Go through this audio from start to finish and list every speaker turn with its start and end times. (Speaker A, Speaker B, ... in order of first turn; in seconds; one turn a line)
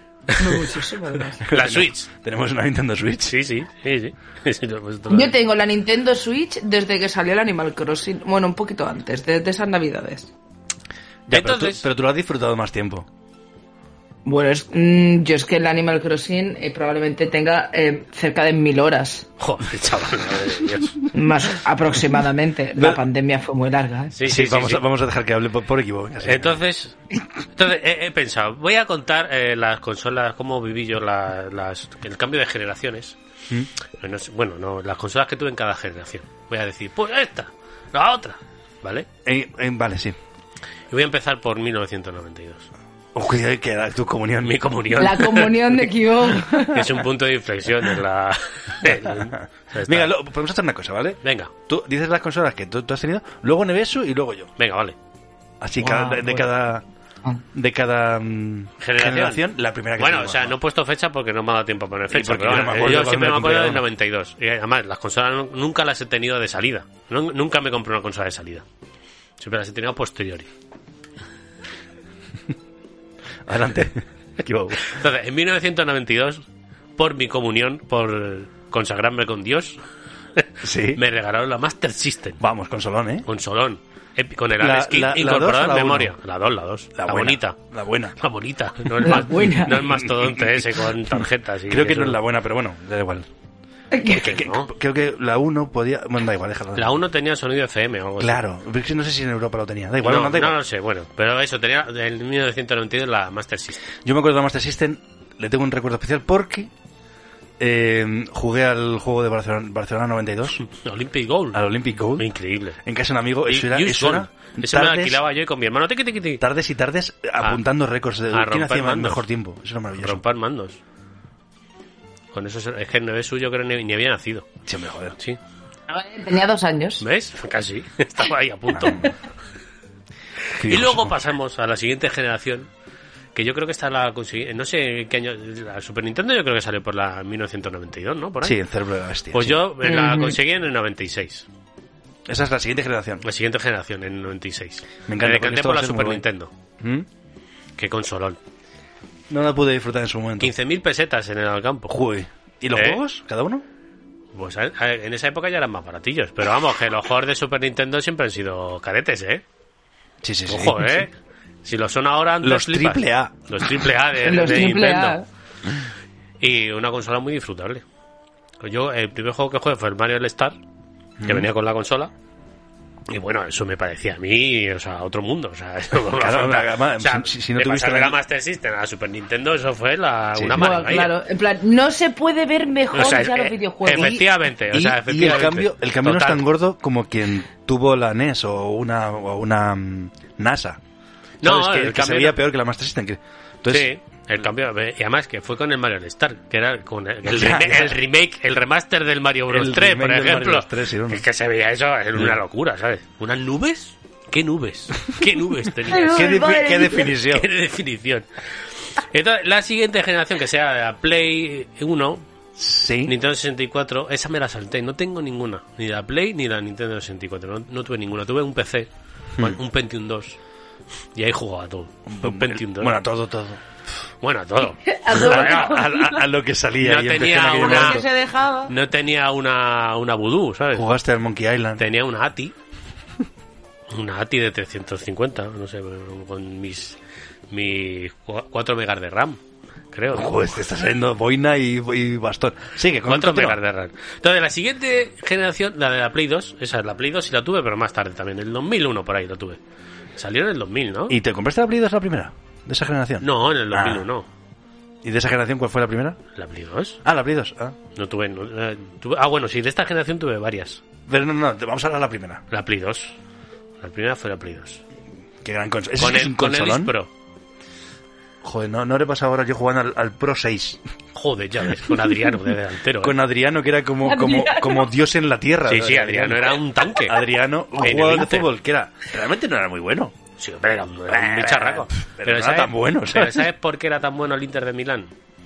Speaker A: 0.4-1.4
Speaker B: 1.4-3.4
Speaker C: 1.5-2.1
Speaker C: 3.3-5.3
Speaker A: 5.1-10.3
Speaker B: 11.3-13.1
Speaker C: 11.3-11.8
Speaker A: 14.2-19.3
Speaker C: 19.4-20.9
Speaker A: 21.1-24.1
Speaker C: 24.1-24.8
Speaker B: 24.2-26.6
Speaker C: 26.2-27.0
Speaker C: 27.6-33.2
Speaker C: 34.0-39.1
Speaker B: 39.2-40.1
Speaker C: 40.9-42.7
Speaker B: 43.1-44.6
Speaker C: 44.4-45.5
Speaker A: 45.0-46.9
Speaker C: 46.7-50.1
Speaker B: 48.8-54.5
Speaker C: 51.2-51.5
Speaker C: 54.6-54.9
Speaker B: 55.6-56.8
Speaker A: 55.8-56.4
Speaker B: 57.5-60.6
Speaker C: 58.8-59.4
Speaker C: 60.0-68.6
Speaker B: 62.1-63.8
Speaker C: 69.4-70.5
Speaker B: 73.5-74.9
Speaker C: 74.8-76.4
Speaker C: 77.0-79.8
Speaker C: 80.4-82.4
Speaker B: 80.6-81.0
Speaker B: 82.4-83.2
Speaker C: 83.2-87.6
Speaker B: 84.6-86.1
Speaker B: 86.9-88.1
Speaker C: 88.2-92.2
Speaker A: 89.0-89.8
Speaker B: 89.7-93.3
Speaker A: 93.9-94.2
Speaker B: 94.0-97.0
Speaker C: 94.1-94.7
Speaker C: 96.8-98.4
Speaker B: 98.2-100.6
Speaker C: 100.0-103.8
Speaker B: 104.0-106.7
Speaker B: 107.6-110.6
Speaker C: 110.6-111.6
Speaker B: 111.5-115.2
Speaker C: 112.2-112.8
Speaker C: 113.5-116.4
Speaker B: 116.4-120.2
Speaker C: 118.3-119.2
Speaker C: 120.0-120.8
Speaker C: 122.3-124.5
Speaker B: 124.7-125.2
Speaker A: 125.9-127.0
Speaker C: 127.0-129.1
Speaker B: 128.7-129.1
Speaker B: 130.6-131.1
Speaker C: 130.6-132.7
Speaker C: 133.3-138.6
Speaker B: 138.4-139.6
Speaker C: 139.3-141.5
Speaker A: 139.8-140.4
Speaker B: 142.3-143.2
Speaker C: 143.2-146.5
Speaker B: 145.1-146.2
Speaker B: 146.8-147.1
Speaker C: 147.8-148.4
Speaker B: 149.3-150.5
Speaker C: 150.4-151.9
Speaker B: 151.9-153.6
Speaker C: 152.7-153.0
Speaker C: 154.3-159.4
Speaker B: 160.2-161.1
Speaker C: 160.5-165.2
Speaker B: 162.4-163.3
Speaker A: 164.2-165.2
Speaker C: 166.4-167.8
Speaker C: 168.6-170.6
Speaker B: 171.2-171.5
Speaker C: 171.2-172.1
Speaker C: 173.1-181.1
Speaker B: 176.1-178.2
Speaker B: 180.3-181.0
Speaker A: 180.5-184.2
Speaker C: 182.9-186.4
Speaker B: 183.9-190.8
Speaker C: 191.4-192.4
Speaker B: 191.4-193.9
Speaker C: 193.7-206.3
Speaker B: 197.3-198.0
Speaker B: 199.5-201.2
Speaker A: 205.9-207.1
Speaker B: 206.1-207.5
Speaker C: 207.3-208.3
Speaker C: 208.9-212.2
Speaker B: 212.6-213.1
Speaker C: 213.1-220.4
Speaker C: 221.1-223.0
Speaker B: 222.1-223.6
Speaker C: 224.2-225.8
Speaker A: 224.8-226.2
Speaker B: 225.1-228.0
Speaker C: 226.8-228.0
Speaker A: 227.5-228.7
Speaker C: 228.7-230.9
Speaker B: 230.7-231.8
Speaker C: 231.8-232.5
Speaker C: 233.9-237.0
Speaker C: 237.5-239.4
Speaker C: 239.9-240.4
Speaker B: 240.1-243.6
Speaker C: 243.1-249.6
Speaker C: 250.2-251.2
Speaker B: 251.1-254.1
Speaker C: 253.2-254.3
Speaker B: 255.0-256.2
Speaker C: 256.4-257.0
Speaker B: 257.0-257.7
Speaker C: 257.9-260.8
Speaker B: 261.1-262.4
Speaker C: 262.5-263.1
Speaker C: 263.8-264.8
Speaker B: 265.4-266.9
Speaker C: 266.0-267.1
Speaker B: 268.4-270.8
Speaker C: 271.1-273.1
Speaker B: 273.0-280.1
Speaker A: 274.0-274.9
Speaker C: 275.7-277.2
Speaker C: 277.8-278.5
Speaker C: 280.4-285.1
Speaker B: 281.1-283.4